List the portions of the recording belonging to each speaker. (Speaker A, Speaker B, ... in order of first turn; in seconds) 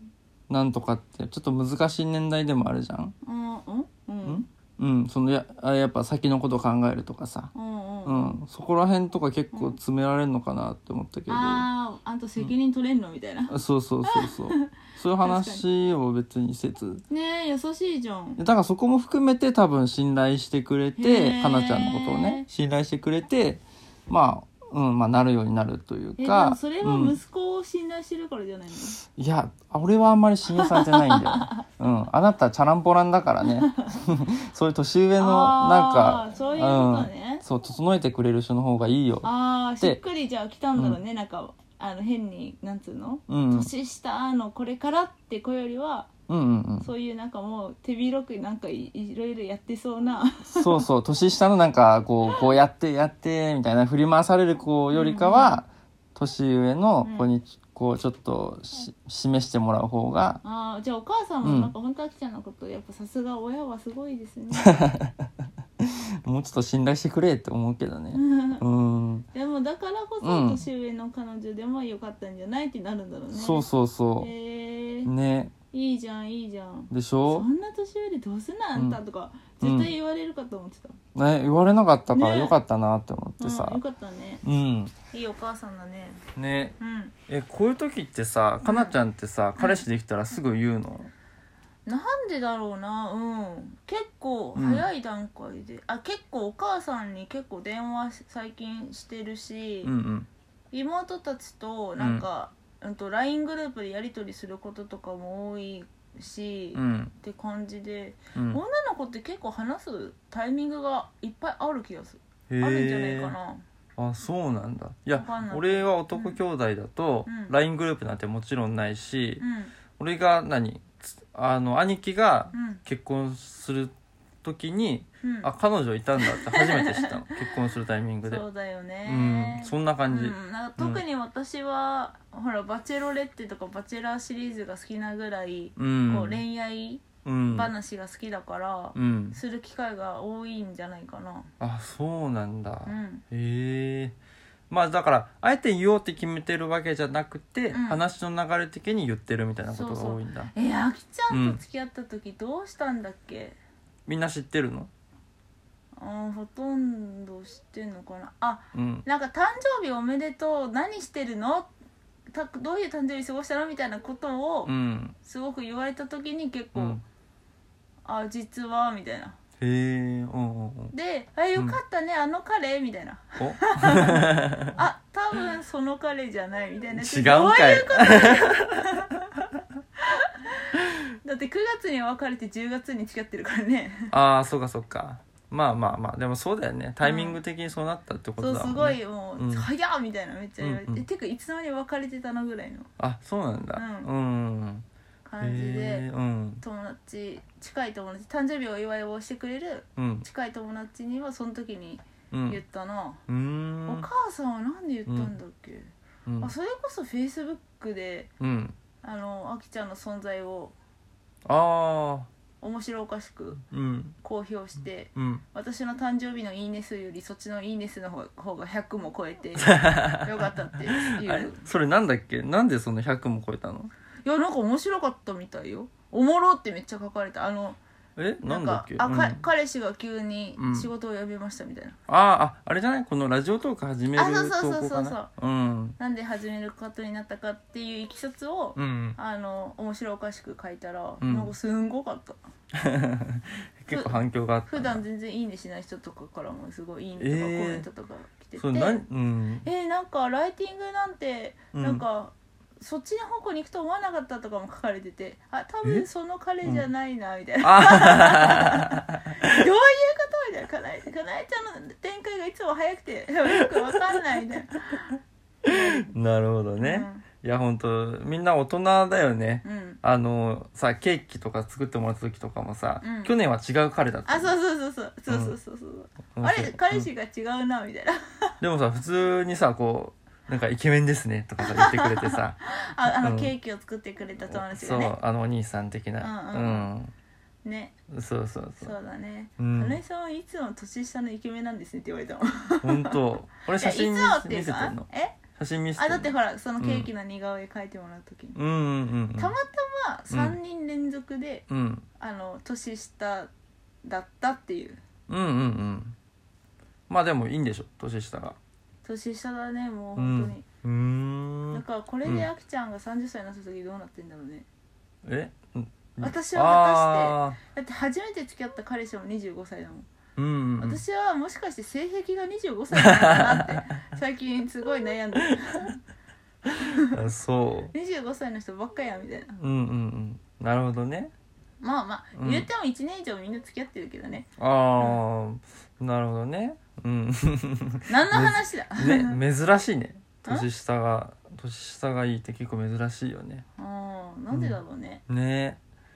Speaker A: 0.5-3.1, 4.2-7.5, 8.1-11.7, 13.5-17.0, 18.4-27.2, 29.0-39.3, 43.3-43.7, 46.3-46.9, 50.5-60.4, 61.4-61.7, 64.6-65.2, 65.8-69.3, 70.2-70.6, 73.3-74.3, 75.0-75.5, 76.9-77.5, 79.6-79.9, 81.2-83.8, 84.4-84.9, 86.4-86.8, 87.3-91.1, 94.5-94.9, 99.8-100.3, 102.0-102.2, 106.7-107.1, 108.3-108.6, 112.5-113.3, 114.0-119.4, 120.0-128.4, 129.1-131.0, 135.8-136.4, 137.2-137.7, 138.9-139.4, 141.6-144.2, 144.7-150.5, 151.3-151.6, 154.1-154.9, 158.7-159.1, 164.7-165.2, 166.7-167.0, 169.6-170.9, 173.4-174.7, 176.9-178.9, 184.1-189.7, 190.6-191.0, 193.0-194.8, 195.4-196.6, 200.0-200.2, 202.3-202.6, 203.3-204.1, 205.1-205.3, 206.3-206.5, 208.4-208.8, 211.4-212.3, 213.7-214.2, 215.2-215.4, 219.6-220.3, 220.9-223.9, 228.2-229.4, 230.6-230.9, 232.1-236.0, 238.8-239.2, 241.2-241.5, 242.8-245.0, 247.2-247.8, 248.6-249.7, 251.7-252.0, 257.6-259.5, 263.5-264.0, 265.6-274.6, 275.3-275.6, 276.3-277.1, 278.6-283.5, 284.4-287.1, 288.1-288.9, 289.6-290.0, 292.8-297.1, 298.6-299.6, 300.3-300.6, 301.7-302.1, 305.3-306.2, 307.1-308.6, 310.2-312.5, 315.2-317.6, 320.4-321.0, 322.9-323.7, 327.1-327.9, 329.6-331.3, 332.3-332.7, 334.6-343.6, 344.5-345.8
Speaker B: 3.2-4.5, 7.5-8.4, 11.3-13.6, 14.1-14.7, 15.2-15.6, 17.1-18.4, 21.0-22.4, 26.2-29.0, 30.5-31.6, 33.6-33.9, 35.2-37.5, 39.2-46.1, 46.8-50.8, 54.9-55.6, 57.0-57.3, 60.4-64.8, 68.1-68.6, 69.3-73.7, 74.2-75.1, 75.7-81.0, 82.1-82.6, 83.4-84.4, 85.1-86.2, 86.8-87.1, 88.7-88.9, 89.6-89.8, 91.9-99.9, 100.7-113.6, 115.1-116.4, 117.2-117.5, 119.4-119.7, 122.5-122.8, 125.2-125.5, 126.2-127.3, 128.2-141.5, 142.9-143.2, 147.7-148.0, 149.7-153.6, 156.0-161.7, 162.3-164.7, 165.2-167.0, 168.1-169.4, 170.9-174.2, 174.8-179.3, 181.2-184.1, 187.0-187.4, 188.4-192.9, 193.8-194.1, 195.2-196.1, 196.6-203.2, 203.9-208.3, 209.0-210.8, 212.6-213.6, 214.2-221.7, 224.2-227.8, 228.4-232.0, 234.2-235.3, 236.0-242.4, 243.9-249.0, 249.6-265.2, 265.7-266.0, 266.8-267.3, 269.6-270.0, 273.0-273.4, 274.3-278.5, 281.6-285.1, 286.2-286.9, 287.6-287.9, 288.8-293.2, 293.7-295.4, 296.0-298.6, 299.4-301.7, 302.2-303.5, 304.0-305.0, 309.0-310.7, 311.7-314.7, 316.2-320.1, 320.8-326.0, 327.9-329.5, 331.8-334.5, 338.1-339.4, 343.8-345.2